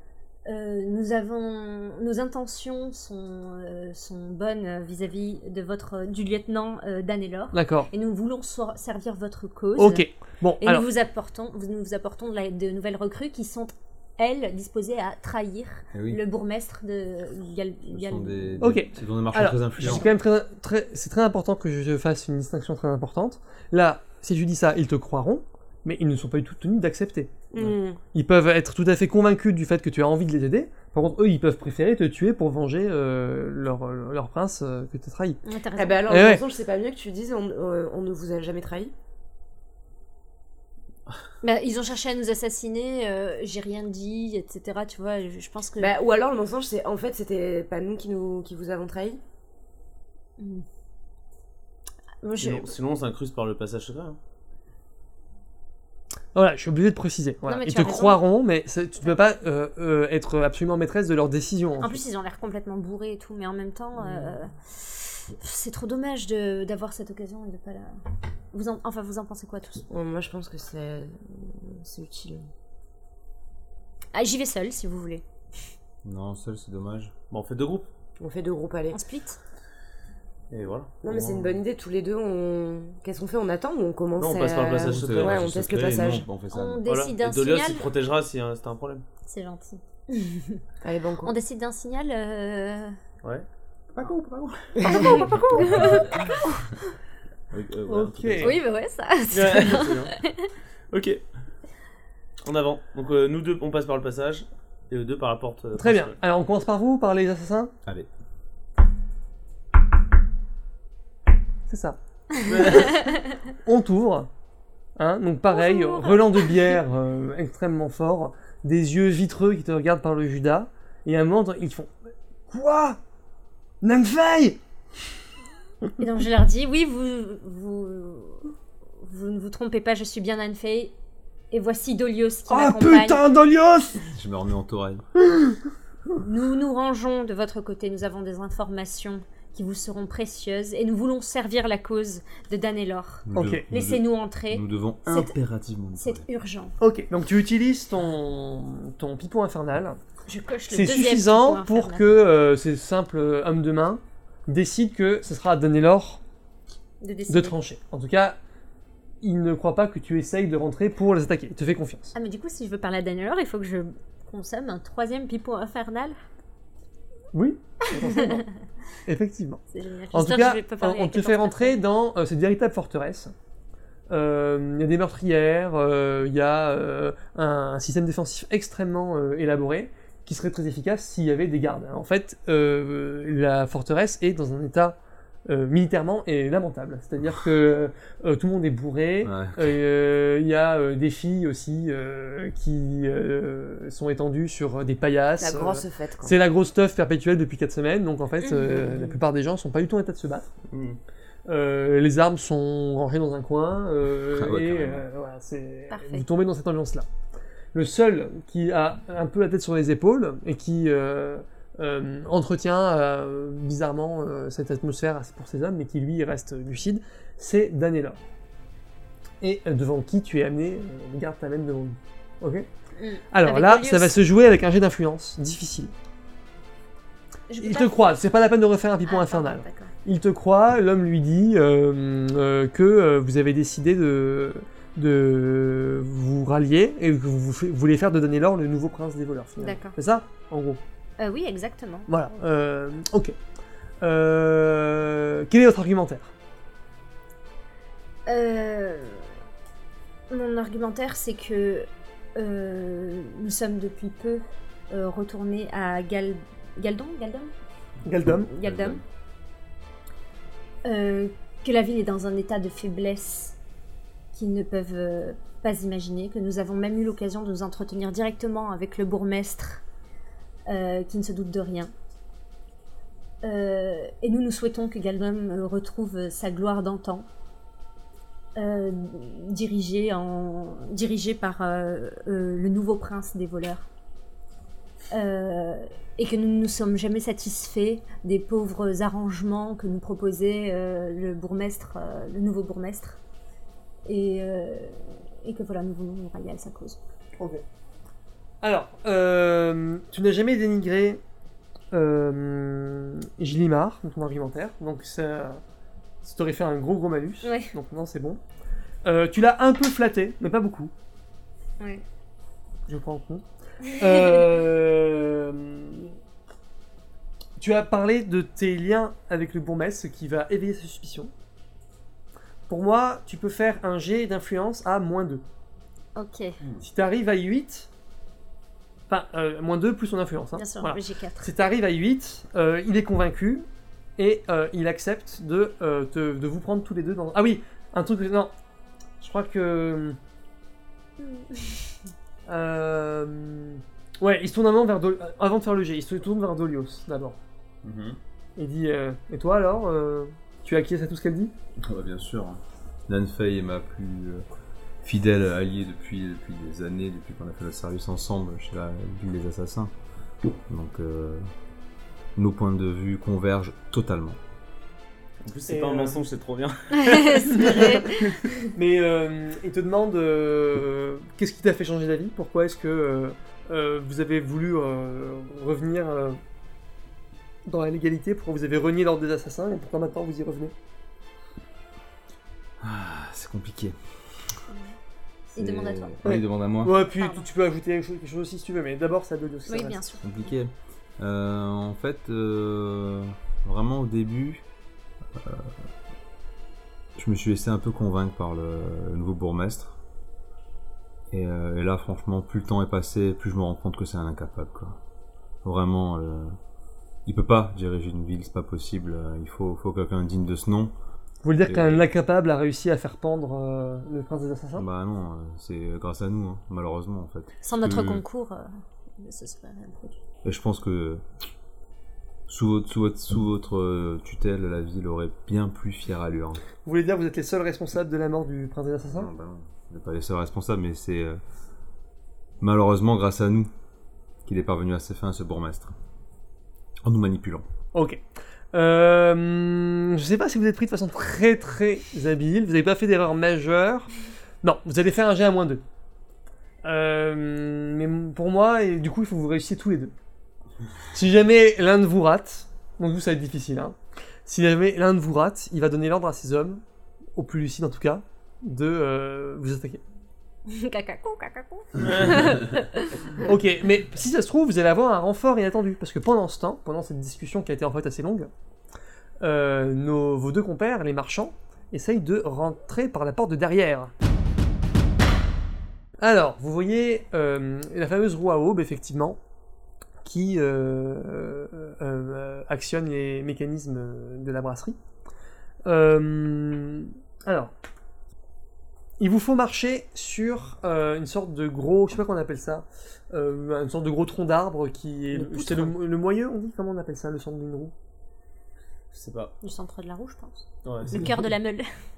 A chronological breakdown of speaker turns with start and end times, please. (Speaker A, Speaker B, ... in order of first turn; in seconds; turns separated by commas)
Speaker A: 0.5-10.1, Speaker B: 7.5-7.9, Speaker B: 9.8-10.9, Speaker A: 10.6-18.8, Speaker C: 15.9-16.2, Speaker C: 17.9-20.1, Speaker B: 18.6-27.3, Speaker A: 19.8-20.1, Speaker D: 27.5-28.0, Speaker B: 28.1-35.4, Speaker A: 35.4-36.1, Speaker D: 35.8-38.9, Speaker B: 36.1-36.4, Speaker A: 41.4-45.9, Speaker D: 45.8-49.2, Speaker A: 50.4-50.6, Speaker A: 52.2-52.7, Speaker E: 52.4-54.2, Speaker B: 56.4-62.0, Speaker A: 57.5-58.2, Speaker A: 61.8-68.0, Speaker A: 68.5-69.9, Speaker D: 69.9-72.4, Speaker A: 74.1-75.2, Speaker C: 76.0-77.1, Speaker E: 77.3-77.9, Speaker D: 78.2-79.0, Speaker A: 78.9-79.4, Speaker E: 80.5-81.6, Speaker D: 81.0-86.3, Speaker E: 84.2-85.5, Speaker C: 84.8-86.8, Speaker A: 86.5-87.9, Speaker E: 86.9-89.0, Speaker A: 89.2-90.6, Speaker D: 90.8-91.3, Speaker A: 91.2-93.0, Speaker A: 94.8-96.9, Speaker B: 94.8-95.7, Speaker E: 97.5-98.6, Speaker B: 97.9-98.6, Speaker A: 98.4-100.5, Speaker E: 99.3-100.2, Speaker E: 100.9-101.2, Speaker E: 102.5-106.2, Speaker B: 105.8-107.7, Speaker B: 111.7-112.0, Speaker E: 112.5-113.0, Speaker B: 113.7-114.3, Speaker B: 115.0-121.9, Speaker A: 115.5-116.5, Speaker B: 122.5-123.0, Speaker B: 123.8-124.6, Speaker A: 126.0-130.9, Speaker A: 131.5-133.2, Speaker B: 132.5-134.1, Speaker C: 134.1-135.1, Speaker B: 135.3-135.6, Speaker A: 136.2-145.4, Speaker C: 143.3-146.3, Speaker B: 143.3-143.7, Speaker A: 146.0-146.7, Speaker B: 146.8-150.0, Speaker A: 150.3-152.2, Speaker B: 150.7-156.2, Speaker A: 157.0-157.6, Speaker B: 157.3-158.4, Speaker B: 159.2-162.1, Speaker A: 162.2-166.2, Speaker B: 167.3-168.5, Speaker A: 167.9-168.5, Speaker B: 169.1-169.6, Speaker A: 169.7-171.8, Speaker B: 170.1-173.3, Speaker B: 174.1-200.5, Speaker C: 189.2-189.7, Speaker D: 195.4-196.3, Speaker A: 198.4-199.1, Speaker E: 200.7-201.0, Speaker B: 201.5-207.1, Speaker C: 204.3-205.1, Speaker A: 205.9-206.3, Speaker B: 207.7-218.2, Speaker B: 219.4-222.7, Speaker A: 223.0-224.2, Speaker B: 223.3-225.9, Speaker A: 227.5-228.2, Speaker B: 227.6-240.8, Speaker A: 229.1-229.9, Speaker A: 239.6-240.0, Speaker A: 241.2-242.1, Speaker B: 242.1-243.3, Speaker B: 244.0-246.3, Speaker A: 248.3-249.3, Speaker A: 250.3-257.5, Speaker B: 258.1-258.5, Speaker C: 258.2-259.0, Speaker A: 258.5-259.0, Speaker A: 260.9-263.6, Speaker A: 264.3-269.8, Speaker A: 270.7-271.9, Speaker A: 273.4-277.3, Speaker A: 278.6-283.9, Speaker A: 285.1-293.2, Speaker A: 294.1-297.0, Speaker B: 298.6-301.2, Speaker B: 301.9-305.6, Speaker B: 306.2-308.4, Speaker A: 307.4-307.7, Speaker B: 309.1-310.9, Speaker B: 312.9-316.1, Speaker A: 313.9-314.4, Speaker B: 317.6-321.3, Speaker B: 322.7-325.4, Speaker A: 326.1-326.6, Speaker B: 326.8-327.9, Speaker B: 329.1-333.7, Speaker A: 330.6-331.5, Speaker B: 334.2-338.5, Speaker B: 339.2-340.2, Speaker A: 341.2-342.0, Speaker B: 342.5-347.4, Speaker C: 347.8-348.2, Speaker B: 348.6-351.5, Speaker C: 351.8-354.4, Speaker C: 355.0-359.9, Speaker C: 360.7-361.5, Speaker C: 362.4-364.4, Speaker E: 365.4-367.7, Speaker B: 365.7-366.2, Speaker A: 366.9-368.7, Speaker B: 367.5-376.4, Speaker B: 377.7-380.7, Speaker C: 382.8-384.0, Speaker A: 385.6-386.2, Speaker C: 385.6-386.9, Speaker B: 386.2-390.0, Speaker A: 387.1-387.5, Speaker A: 389.7-390.3, Speaker C: 390.2-394.6, Speaker C: 395.3-395.8, Speaker C: 397.2-400.0, Speaker C: 401.3-405.0, Speaker C: 405.6-406.6, Speaker C: 407.3-410.9, Speaker B: 411.4-414.9, Speaker C: 411.7-412.0, Speaker C: 414.8-418.2, Speaker A: 417.6-418.7, Speaker A: 419.2-420.2, Speaker C: 420.4-421.2, Speaker C: 422.5-426.6, Speaker B: 426.9-429.3, Speaker C: 429.1-431.4, Speaker C: 432.6-433.7, Speaker C: 434.5-435.9, Speaker C: 437.0-437.7, Speaker B: 437.9-438.2, Speaker B: 438.7-444.1, Speaker B: 444.6-445.8, Speaker B: 446.8-450.1, Speaker B: 451.1-456.8, Speaker B: 457.4-460.0, Speaker A: 460.7-463.4, Speaker E: 462.0-462.4, Speaker B: 463.4-468.5, Speaker B: 469.4-474.1, Speaker B: 476.2-479.4, Speaker B: 480.2-485.0, Speaker B: 485.9-487.7, Speaker B: 489.2-497.9, Speaker D: 495.4-495.9, Speaker E: 499.1-499.5, Speaker A: 499.6-501.9, Speaker E: 500.9-501.3